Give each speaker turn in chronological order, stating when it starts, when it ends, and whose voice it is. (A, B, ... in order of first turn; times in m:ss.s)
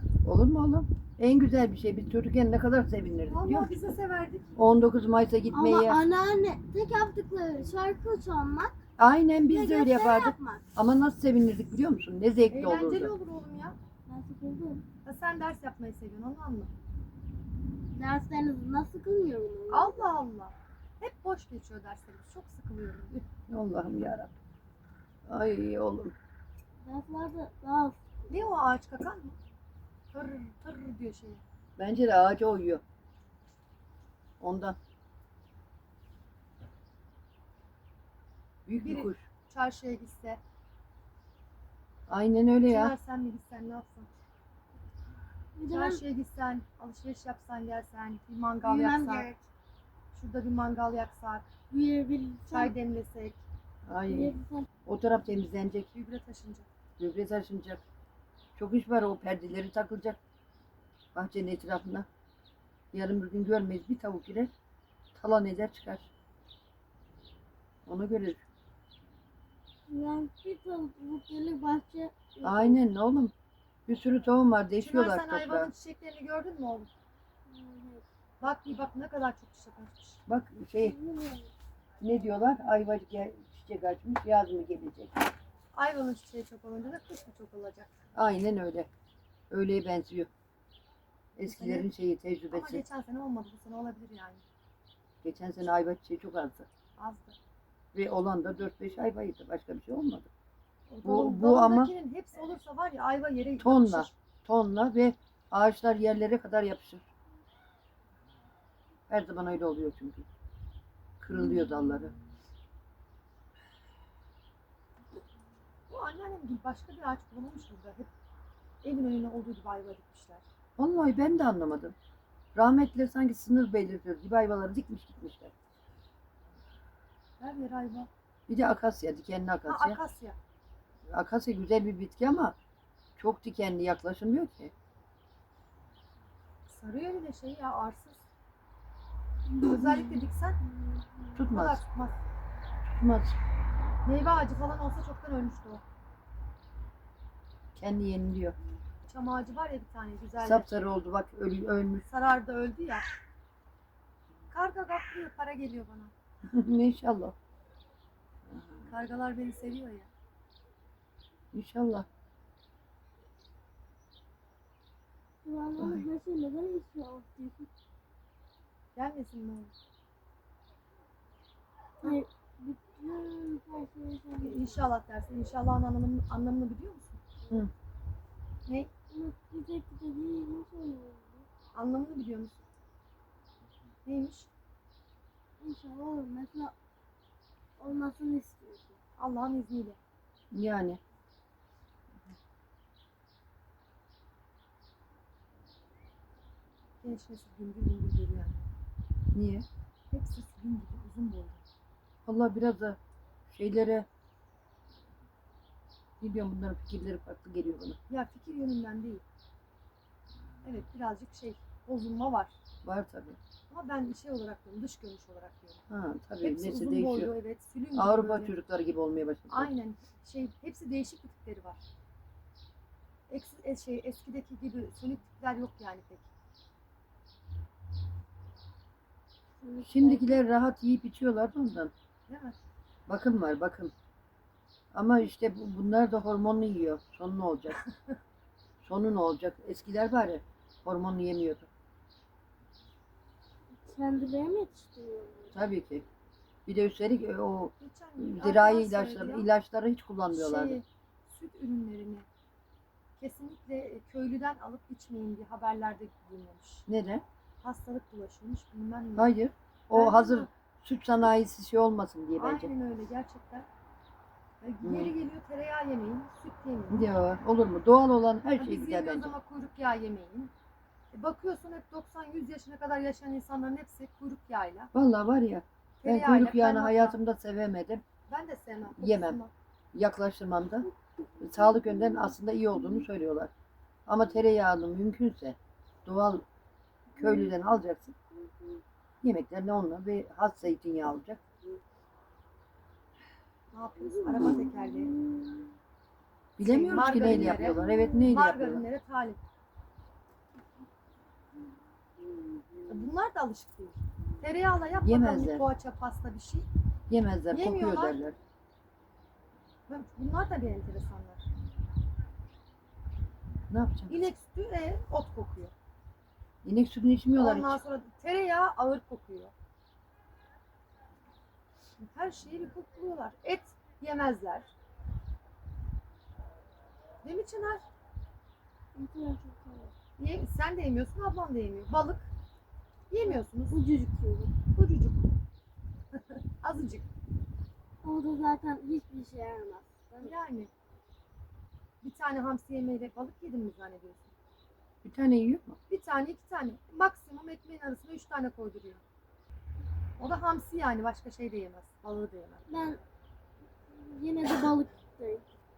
0:00.2-0:03.7 A
0:03.3-0:04.5 B
0:04.6-0:06.0 A
0:05.5-0:08.8 C
0:09.0-0:13.1 A
0:09.5-0:10.6 C
0:12.5-0:13.8 B
0:14.1-0:14.8 C
0:15.0-0:16.7 B
0:17.9-0:20.1 C
0:19.7-0:23.2 B
0:23.5-0:24.3 A
0:25.3-0:26.1 A
0:26.8-0:28.5 C
0:28.3-0:29.4 B
0:30.1-0:31.4 B
0:31.8-0:32.8 A
0:34.4-0:34.8 A
0:38.6-0:39.3 A
0:38.8-0:40.4 B
0:42.1-0:43.0 A
0:42.6-0:44.1 B
0:45.6-0:46.0 C
0:45.7-0:49.3 B
0:48.6-0:49.4 C
0:50.1-0:51.4 B
0:51.7-0:52.7 C
0:52.5-0:53.4 B
0:53.8-0:55.9 A
0:54.1-0:54.7 C
0:55.9-0:56.7 B
0:57.0-0:57.8 A
0:58.6-1:00.2 A
1:01.1-1:02.1 A
1:02.9-1:04.5 A
1:05.1-1:06.1 A
1:07.8-1:08.4 A
1:09.9-1:12.8 C
1:12.4-1:13.3 A
1:13.9-1:15.7 A
1:14.8-1:16.9 B
1:17.5-1:18.0 C
1:18.4-1:20.2 B
1:20.3-1:21.0 A
1:20.8-1:21.5 C
1:22.0-1:25.1 A
1:25.7-1:27.9 B
1:28.1-1:28.9 A
1:29.5-1:30.3 A
1:31.4-1:32.8 A
1:31.4-1:31.9 B
1:32.5-1:34.4 B
1:35.2-1:36.7 A
1:37.0-1:37.4 B
1:37.9-1:40.3 A
1:40.9-1:44.1 B
1:41.0-1:41.9 A
1:43.6-1:47.1 A
1:49.1-1:50.2 A
1:51.2-1:52.1 A
1:55.9-1:58.1 B
1:58.8-2:00.4 B
2:00.8-2:01.9 A
2:02.5-2:05.5 A
2:07.4-2:08.1 B
2:08.5-2:10.0 A
2:09.7-2:10.4 B
2:11.1-2:12.6 A
2:13.2-2:14.7 A
2:16.7-2:18.2 B
2:19.5-2:20.2 C
2:19.6-2:20.6 B
2:20.9-2:21.3 C
2:21.4-2:21.8 A
2:21.5-2:22.2 B
2:22.9-2:23.4 A
2:24.0-2:25.8 B
2:27.8-2:28.6 A
2:29.1-2:30.7 B
2:30.4-2:32.0 A
2:32.1-2:33.1 B
2:34.5-2:36.1 B
2:36.4-2:37.4 A
2:38.9-2:40.1 B
2:41.5-2:42.1 A
2:45.4-2:47.7 C
2:45.8-2:46.0 A
2:49.0-2:49.7 B
2:52.0-2:54.9 C
2:54.4-2:57.2 B
2:59.1-3:01.5 C
3:01.7-3:02.6 B
3:04.0-3:04.5 B
3:05.6-3:06.7 C
3:07.8-3:09.0 C
3:09.2-3:10.0 B
3:10.5-3:11.0 A
3:17.0-3:18.7 B
3:19.3-3:19.7 A
3:20.1-3:21.6 B
3:22.2-3:24.0 A
3:26.2-3:28.0 A
3:28.1-3:29.2 B
3:30.6-3:32.6 B
3:32.8-3:33.4 A
3:33.7-3:35.8 B
3:35.9-3:37.3 A
3:36.4-3:38.5 B
3:37.9-3:39.7 A
3:39.5-3:41.8 B
3:43.3-3:46.3 B
3:49.6-3:50.4 C
3:49.8-3:51.9 A
3:52.3-3:52.5 B
3:53.1-3:53.9 A
3:54.9-3:57.8 A
3:58.8-4:01.7 A
4:03.8-4:05.6 C
4:05.5-4:06.1 A
4:06.6-4:10.8 A
4:07.8-4:09.5 B
4:10.3-4:12.2 B
4:13.2-4:16.8 B
4:16.9-4:17.2 A
4:17.6-4:19.3 B
4:19.2-4:22.7 A
4:19.9-4:20.5 B
4:22.4-4:23.7 B
4:24.6-4:27.1 B
4:24.8-4:25.1 A
4:26.9-4:29.3 A
4:28.6-4:30.5 B
4:31.1-4:34.9 B
4:34.9-4:38.0 A
4:36.0-4:37.2 B
4:38.3-4:39.5 B
4:39.0-4:39.4 A
4:39.9-4:40.9 A
4:41.4-4:43.5 A
4:44.1-4:46.4 A
4:47.1-4:48.1 A
4:47.2-4:47.5 C
4:48.3-4:48.8 C
4:49.2-4:51.4 A
4:53.7-4:55.1 B
4:54.0-4:55.7 C
4:56.6-4:58.8 A
4:56.6-4:59.4 B
4:57.8-4:58.1 C
5:02.2-5:03.1 C
5:02.9-5:06.7 B
5:05.0-5:05.7 A
5:07.1-5:08.4 A
5:07.5-5:08.2 B
5:09.9-5:11.4 B
5:13.7-5:14.2 A
5:14.1-5:15.7 B
5:16.6-5:17.8 A
5:17.3-5:19.5 B
5:22.1-5:24.7 B
5:27.2-5:27.8 B
5:28.9-5:29.9 C
5:30.2-5:32.3 B
5:33.1-5:33.8 B
5:33.2-5:34.6 C
5:34.7-5:35.3 B
5:36.3-5:37.1 B
5:38.0-5:40.3 C
5:40.2-5:40.7 B
5:42.0-5:44.3 B
5:45.0-5:45.8 A
5:45.9-5:49.0 B
5:50.2-5:52.6 B
5:52.7-5:53.0 C
5:53.9-5:55.4 C